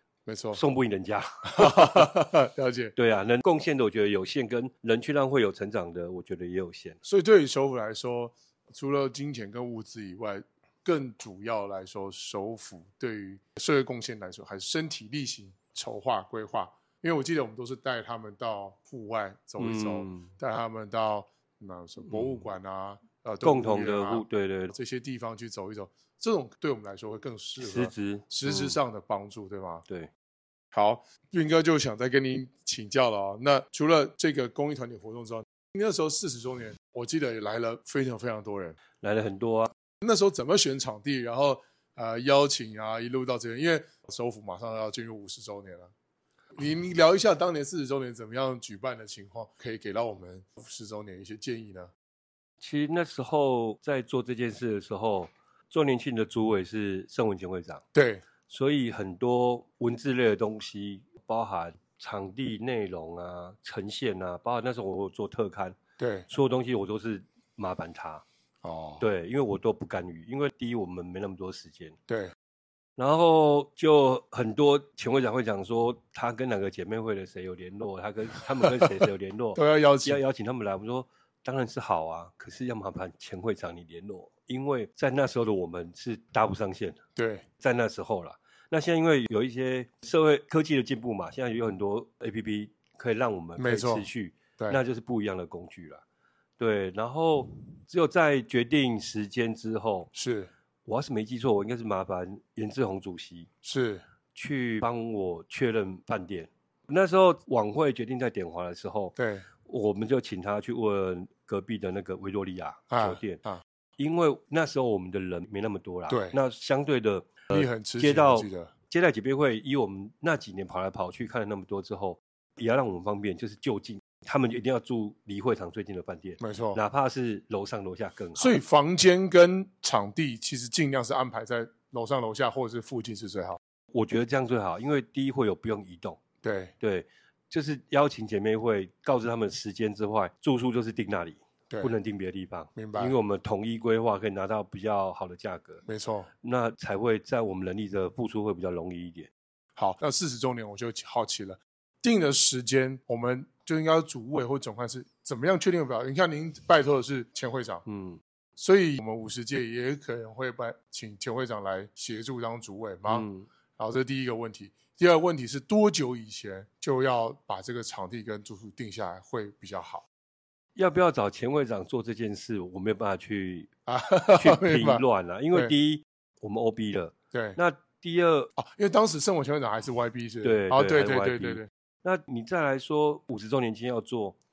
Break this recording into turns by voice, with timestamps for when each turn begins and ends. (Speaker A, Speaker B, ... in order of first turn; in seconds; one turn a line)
Speaker A: 0.2-0.6
Speaker B: 0.5-2.1
Speaker A: 1.4-2.9
Speaker B: 3.0-7.0
Speaker A: 7.0-29.9
Speaker B: 19.6-20.3
Speaker B: 22.0-22.4
Speaker B: 23.4-24.7
Speaker B: 27.6-28.8
Speaker A: 30.7-38.8
Speaker B: 39.0-39.7
Speaker A: 40.0-45.9
Speaker A: 46.5-51.9
Speaker B: 52.6-57.8
Speaker A: 57.9-58.2
Speaker B: 58.5-65.8
Speaker A: 66.0-66.3
Speaker B: 66.3-68.2
Speaker A: 68.6-69.0
Speaker B: 69.0-72.0
Speaker A: 72.1-72.3
Speaker B: 73.0-87.0
Speaker A: 78.4-78.8
Speaker A: 79.5-80.2
Speaker A: 87.2-87.4
Speaker B: 87.6-96.0
Speaker A: 93.6-94.1
Speaker B: 96.6-100.1
Speaker A: 100.1-100.5
Speaker B: 100.8-103.5
Speaker A: 103.6-104.0
Speaker B: 104.3-113.4
Speaker A: 109.2-109.5
Speaker A: 112.9-113.6
Speaker B: 114.0-128.5
Speaker A: 116.1-116.4
Speaker A: 117.5-118.7
Speaker A: 126.4-126.8
Speaker A: 128.4-133.6
Speaker B: 133.9-136.2
Speaker A: 136.4-136.7
Speaker B: 136.8-145.8
Speaker A: 141.7-141.9
Speaker A: 142.7-143.2
Speaker A: 145.8-146.3
Speaker B: 146.4-149.3
Speaker A: 149.8-157.8
Speaker B: 157.8-158.2
Speaker A: 158.6-163.3
Speaker B: 163.1-163.5
Speaker A: 163.8-170.1
Speaker B: 170.8-173.7
Speaker A: 173.9-175.7
Speaker B: 174.3-178.5
Speaker A: 177.3-177.6
Speaker A: 178.6-181.7
Speaker B: 180.4-184.3